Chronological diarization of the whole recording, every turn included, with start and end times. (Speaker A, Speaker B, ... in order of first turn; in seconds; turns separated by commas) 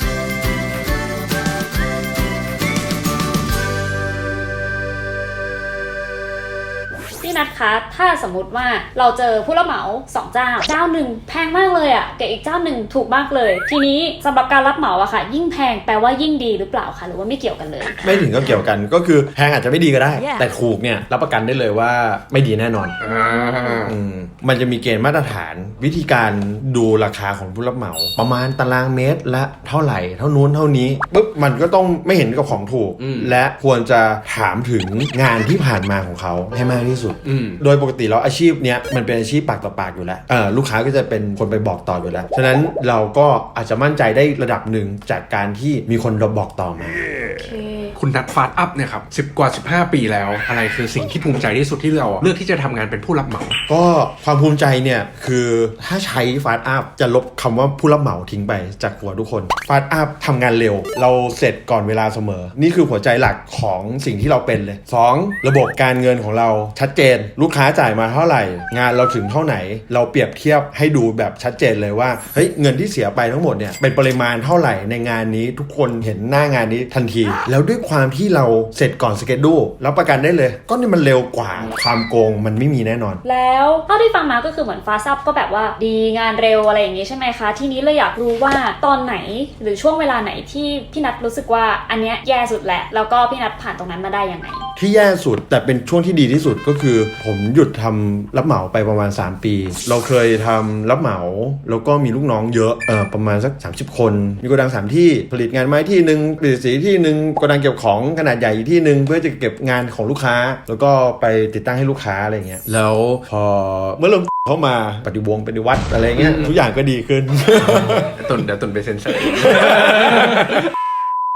Speaker A: 7.2-18.0, Speaker B: 18.0-23.0, Speaker C: 23.0-23.9, Speaker B: 23.9-47.0, Speaker C: 33.0-33.4, Speaker C: 37.2-37.6, Speaker A: 47.3-47.9, Speaker C: 48.0-53.6, Speaker B: 53.7-83.2, Speaker A: 83.2-94.7, Speaker B: 94.8-118.2, Speaker C: 112.7-113.2, Speaker C: 116.2-116.6, Speaker C: 117.7-120.7